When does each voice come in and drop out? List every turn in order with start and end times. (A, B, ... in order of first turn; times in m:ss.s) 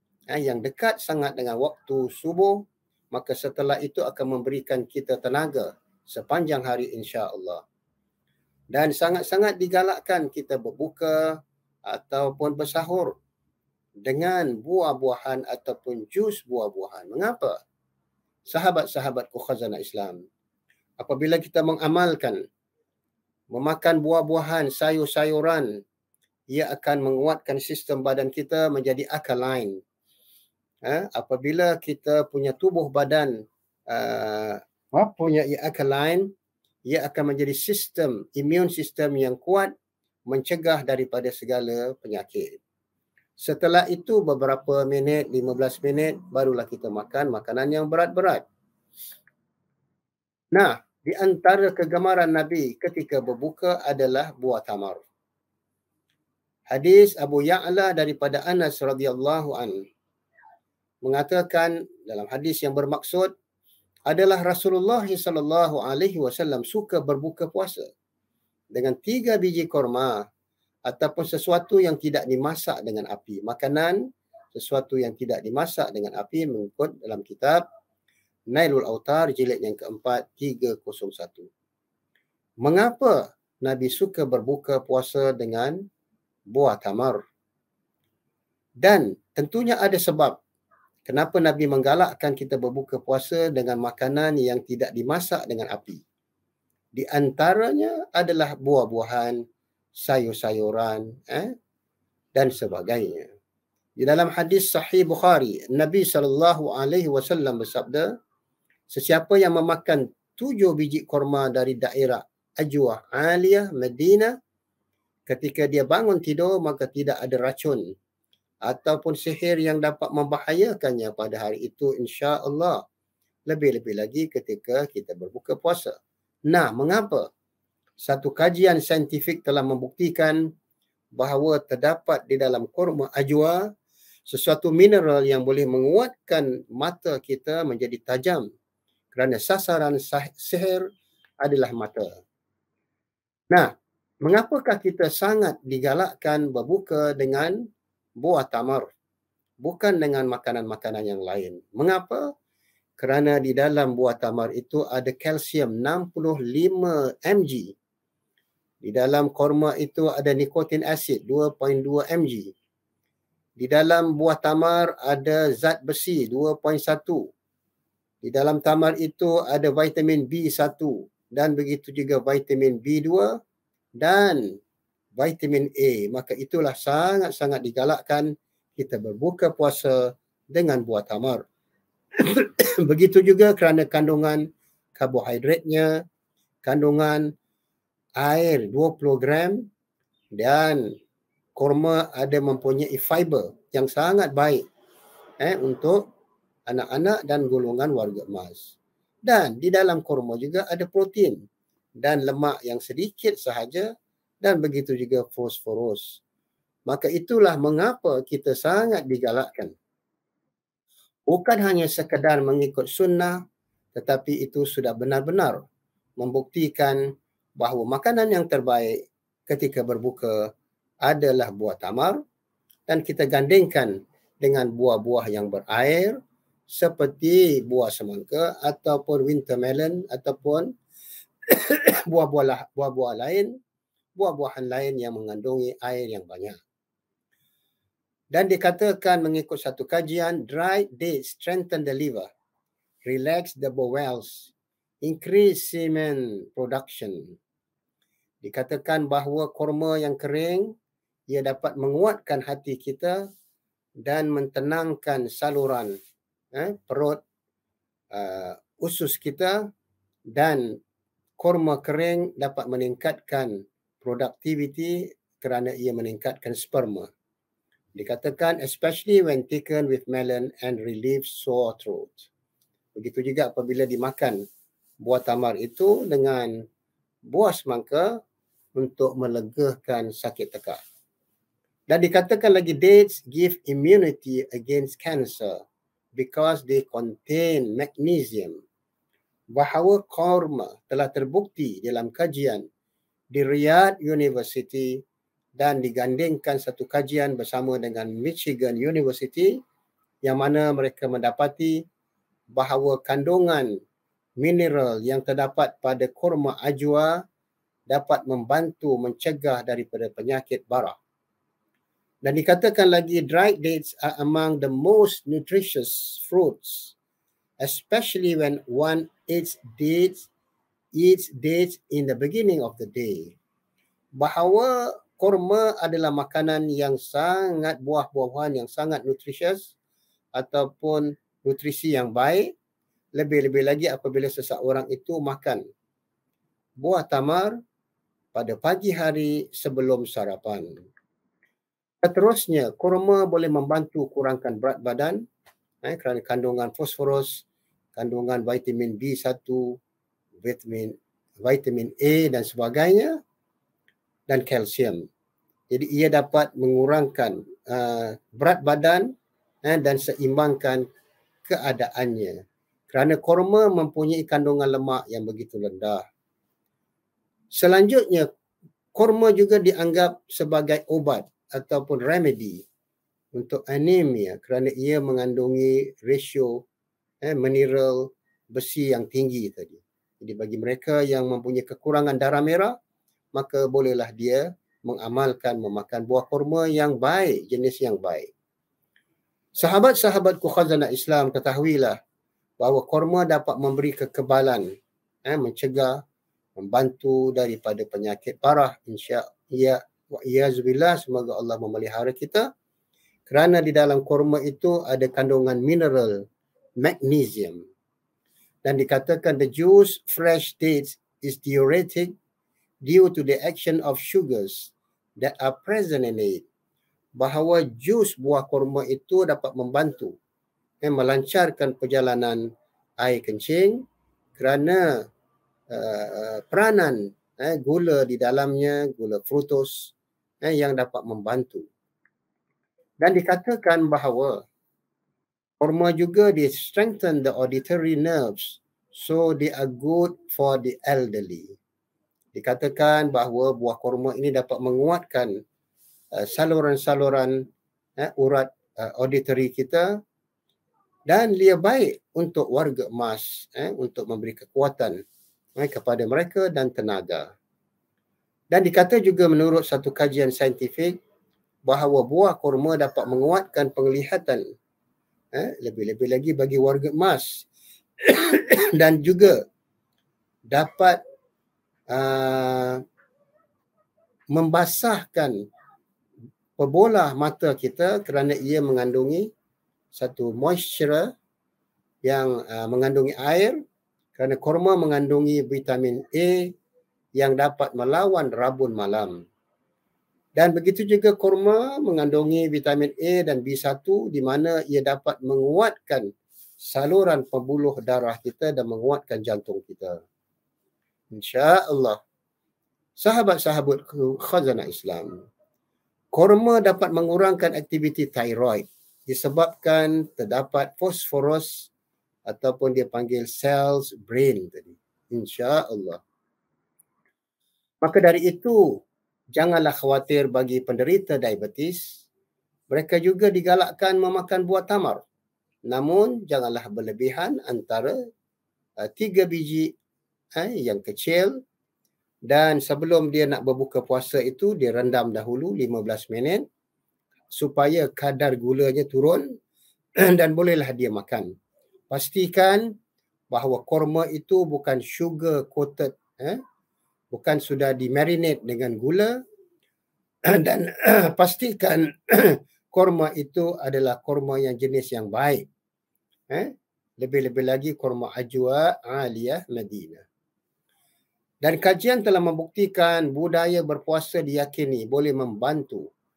0:00.3-0:07.6 A
0:08.7-0:11.4 A
0:11.9-0:13.2 A
0:14.1-0:17.6 A
0:18.5-0:20.2 A
0:21.0-0:22.4 A
0:23.5-0:25.8 A
0:26.5-0:29.8 A
0:30.8-0:36.3 A
0:36.9-0:39.7 A
0:40.3-0:42.6 A
0:43.4-0:48.4 A
0:50.5-0:55.0 A
0:56.7-0:59.8 A
1:01.0-1:03.3 A
1:04.1-1:07.9 A
1:08.7-1:10.3 A
1:10.9-1:17.6 A
1:18.5-1:21.5 A
1:22.6-1:25.8 A
1:26.5-1:27.2 A
1:28.8-1:30.4 A
1:31.1-1:36.0 A
1:37.0-1:39.4 A
1:40.0-1:41.5 A
1:42.4-1:43.3 A
1:44.0-1:48.1 A
1:48.9-1:54.4 A
1:55.3-1:57.8 A
1:58.6-2:02.8 A
2:03.5-2:06.0 A
2:06.5-2:07.3 A
2:08.0-2:10.4 A
2:11.2-2:13.7 A
2:14.3-2:18.5 A
2:19.1-2:20.8 A
2:21.4-2:22.1 A
2:24.2-2:27.6 A
2:28.2-2:28.9 A
2:29.6-2:32.2 A
2:33.0-2:37.8 A
2:38.8-2:42.5 A
2:43.6-2:47.3 A
2:48.2-2:53.4 A
2:54.0-2:54.4 A
2:55.2-3:01.4 A
3:02.2-3:04.4 A
3:05.0-3:06.0 A
3:06.6-3:07.3 A
3:08.2-3:09.7 A
3:10.3-3:10.9 A
3:11.6-3:14.7 A
3:15.4-3:16.1 A
3:16.7-3:21.4 A
3:22.0-3:23.9 A
3:24.4-3:26.2 A
3:26.9-3:29.7 A
3:31.3-3:33.4 A
3:34.0-3:35.6 A
3:36.2-3:37.0 A
3:37.6-3:40.4 A
3:41.0-3:42.2 A
3:42.9-3:46.2 A
3:46.7-3:50.7 A
3:51.5-3:53.6 A
3:54.2-3:56.6 A
3:58.3-4:02.3 A
4:03.0-4:07.4 A
4:08.4-4:10.8 A
4:11.3-4:13.3 A
4:14.0-4:16.0 A
4:16.5-4:17.2 A
4:18.1-4:19.7 A
4:20.3-4:20.8 A
4:21.4-4:27.1 A
4:28.0-4:32.3 A
4:33.0-4:34.4 A
4:35.0-4:36.6 A
4:37.2-4:38.2 A
4:38.8-4:40.8 A
4:41.9-4:45.6 A
4:46.2-4:48.6 A
4:49.6-4:52.6 A
4:53.3-4:55.0 A
4:55.6-4:59.6 A
5:00.2-5:01.8 A
5:02.5-5:03.7 A
5:04.4-5:07.2 A
5:07.9-5:11.0 A
5:12.2-5:17.0 A
5:17.6-5:20.3 A
5:20.9-5:23.4 A
5:24.2-5:29.7 A
5:30.4-5:32.5 A
5:33.2-5:35.6 A
5:36.8-5:37.5 A
5:38.3-5:40.7 A
5:42.0-5:45.2 A
5:45.8-5:49.8 A
5:50.4-5:53.2 A
5:54.3-5:55.1 A
5:55.7-5:59.1 A
5:59.6-6:00.8 A
6:01.5-6:06.0 A
6:07.5-6:08.3 A
6:08.9-6:12.6 A
6:13.3-6:16.6 A
6:17.2-6:22.8 A
6:23.3-6:28.3 A
6:29.6-6:32.0 A
6:32.6-6:34.7 A
6:35.3-6:36.0 A
6:36.6-6:42.5 A
6:43.3-6:46.2 A
6:46.8-6:47.7 A
6:48.6-6:52.2 A
6:52.8-6:56.4 A
6:57.2-7:00.2 A
7:00.8-7:02.5 A
7:03.0-7:03.8 A
7:04.4-7:05.0 A
7:05.7-7:11.7 A
7:13.0-7:14.4 A
7:15.6-7:21.6 A
7:22.4-7:25.3 A
7:26.2-7:27.4 A
7:28.0-7:30.0 A
7:31.1-7:35.0 A
7:35.6-7:37.3 A
7:38.5-7:41.0 A
7:41.7-7:44.4 A
7:45.4-7:47.5 A
7:48.0-7:49.4 A
7:50.5-7:51.0 A
7:51.9-7:52.8 A
7:54.3-7:55.4 A
7:56.6-7:59.3 A
7:59.9-8:01.1 A
8:02.0-8:03.6 A
8:04.2-8:06.5 A
8:07.2-8:09.2 A
8:10.4-8:16.1 A
8:16.6-8:20.0 A
8:21.1-8:22.0 A
8:23.0-8:25.2 A
8:26.1-8:31.7 A
8:32.3-8:36.0 A
8:37.8-8:38.8 A
8:39.4-8:42.0 A
8:42.7-8:45.0 A
8:45.7-8:48.0 A
8:48.8-8:49.7 A
8:50.4-8:51.4 A
8:52.3-8:56.4 A
8:57.3-8:59.3 A
9:00.0-9:01.3 A
9:01.9-9:02.7 A
9:03.3-9:06.4 A
9:07.1-9:09.2 A
9:10.3-9:15.5 A
9:16.3-9:20.0 A
9:21.4-9:25.9 A